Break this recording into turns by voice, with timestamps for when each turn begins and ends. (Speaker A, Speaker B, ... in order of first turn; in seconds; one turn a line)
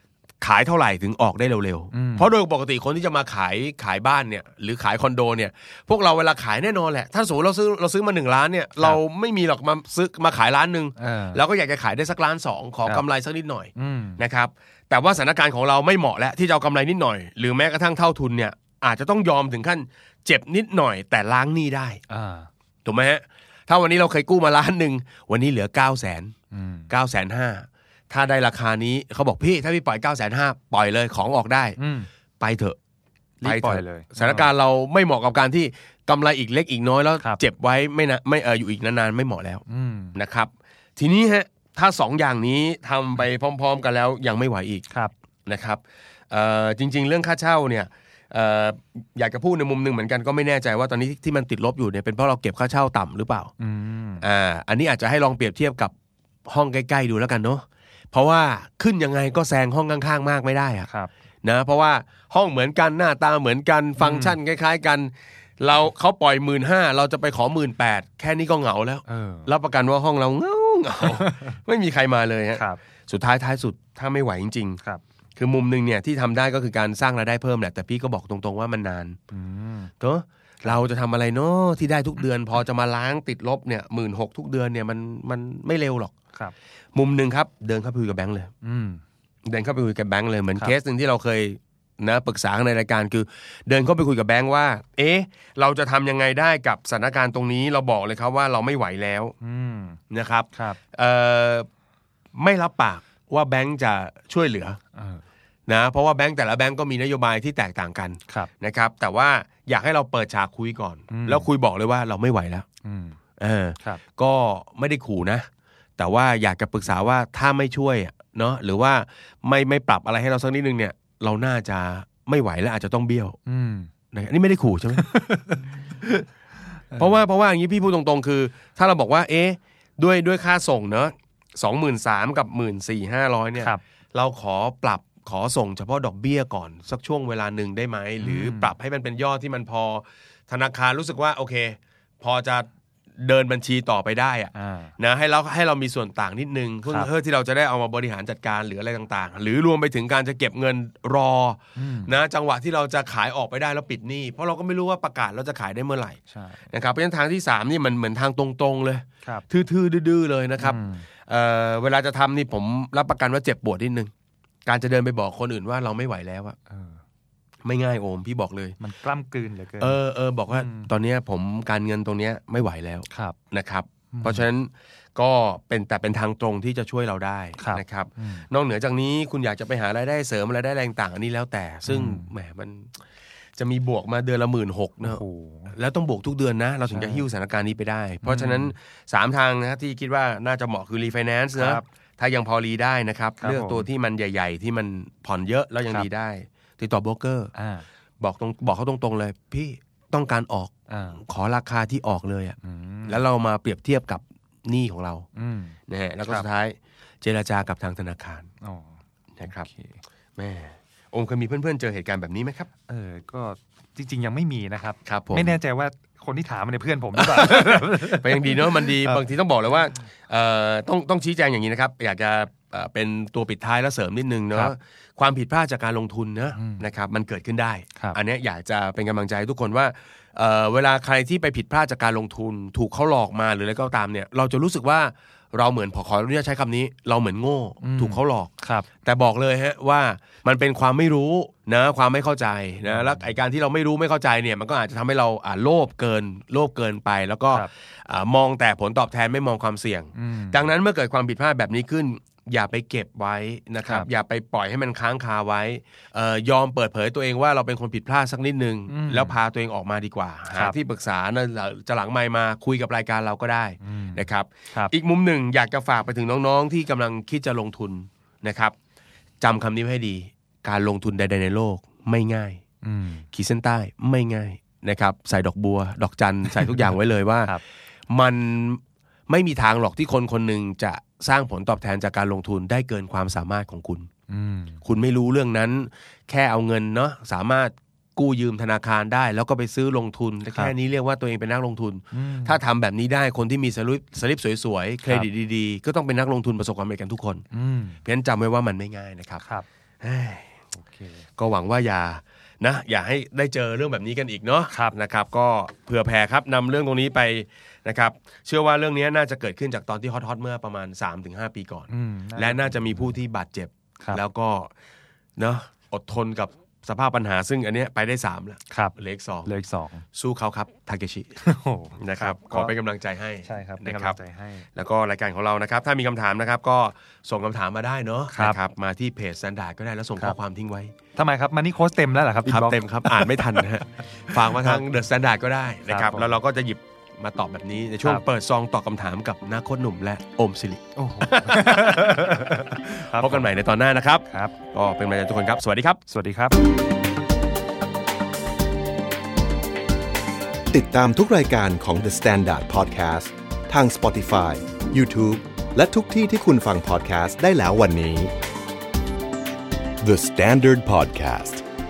Speaker A: 0.4-22.0
Speaker B: 1.9-2.3
Speaker B: 11.0-11.4
Speaker B: 13.8-14.2
Speaker B: 22.1-22.5
Speaker A: 22.9-26.3
Speaker B: 26.5-26.9
Speaker A: 26.9-31.8
Speaker B: 31.8-32.1
Speaker A: 32.4-32.8
Speaker B: 33.4-34.5
Speaker A: 33.5-39.6
Speaker B: 39.7-40.2
Speaker A: 40.1-44.9
Speaker A: 45.5-53.5
Speaker B: 53.6-54.2
Speaker A: 54.2-55.9
Speaker A: 56.5-60.9
Speaker B: 60.9-61.1
Speaker A: 61.4-74.8
Speaker B: 64.0-64.4
Speaker B: 69.1-69.5
Speaker B: 71.0-71.5
Speaker B: 72.5-72.8
Speaker A: 75.4-79.2
Speaker B: 79.3-79.9
Speaker A: 80.0-86.1
Speaker A: 86.9-88.5
Speaker B: 88.6-89.0
Speaker A: 89.5-99.3
Speaker B: 99.4-100.0
Speaker A: 100.1-101.7
Speaker B: 100.5-100.8
Speaker A: 102.3-104.8
Speaker B: 105.0-105.2
Speaker A: 105.7-112.7
Speaker B: 111.1-111.5
Speaker B: 112.8-113.2
Speaker A: 113.4-115.5
Speaker A: 116.0-123.4
Speaker B: 123.5-123.9
Speaker A: 124.1-125.0
Speaker B: 124.9-125.8
Speaker A: 126.0-126.2
Speaker B: 126.9-127.2
Speaker A: 127.0-142.7
Speaker B: 138.2-138.7
Speaker A: 143.2-156.2
Speaker B: 144.5-144.9
Speaker B: 146.9-147.1
Speaker B: 151.8-152.2
Speaker B: 156.3-156.6
Speaker A: 156.7-164.1
Speaker B: 160.6-161.1
Speaker A: 164.7-166.6
Speaker B: 166.7-167.0
Speaker A: 167.6-168.8
Speaker B: 168.8-170.0
Speaker A: 169.8-183.0
Speaker B: 170.5-170.9
Speaker B: 173.1-173.4
Speaker B: 174.1-174.5
Speaker B: 177.6-178.5
Speaker B: 181.8-182.3
Speaker A: 183.6-197.5
Speaker B: 185.0-185.8
Speaker B: 186.9-187.3
Speaker B: 188.2-188.8
Speaker B: 191.5-191.8
Speaker B: 193.4-193.9
Speaker B: 197.5-197.8
Speaker A: 198.2-205.3
Speaker B: 200.9-201.2
Speaker B: 202.6-203.2
Speaker B: 205.3-206.5
Speaker A: 205.9-208.5
Speaker B: 208.6-210.0
Speaker A: 209.4-209.7
Speaker A: 210.4-212.7
Speaker B: 212.9-219.2
Speaker A: 215.1-215.6
Speaker A: 217.2-238.5
Speaker B: 226.6-226.8
Speaker B: 237.8-238.9
Speaker A: 239.1-268.8
Speaker B: 242.8-243.3
Speaker B: 250.2-250.7
Speaker B: 253.8-254.1
Speaker B: 258.9-259.4
Speaker B: 263.8-264.9
Speaker A: 269.4-272.6
Speaker B: 272.8-273.3
Speaker A: 273.3-277.5
Speaker A: 278.1-284.1
Speaker B: 284.3-284.8
Speaker A: 284.8-297.4
Speaker B: 290.5-290.7
Speaker B: 292.1-292.6
Speaker B: 295.0-295.3
Speaker B: 297.5-298.0
Speaker A: 298.1-299.4
Speaker A: 300.0-300.5
Speaker B: 300.7-301.3
Speaker A: 301.4-314.7
Speaker B: 304.7-304.9
Speaker B: 311.9-313.1
Speaker A: 315.4-319.5
Speaker B: 318.7-320.1
Speaker A: 320.1-321.4
Speaker B: 321.4-322.7
Speaker A: 322.0-324.2
Speaker B: 323.4-324.7
Speaker A: 324.8-330.9
Speaker B: 328.3-328.6
Speaker B: 331.2-334.8
Speaker A: 332.4-346.0
Speaker B: 335.9-336.4
Speaker B: 340.9-343.5
Speaker B: 344.3-344.6
Speaker B: 346.1-346.6
Speaker C: 350.7-358.3
Speaker C: 360.1-361.6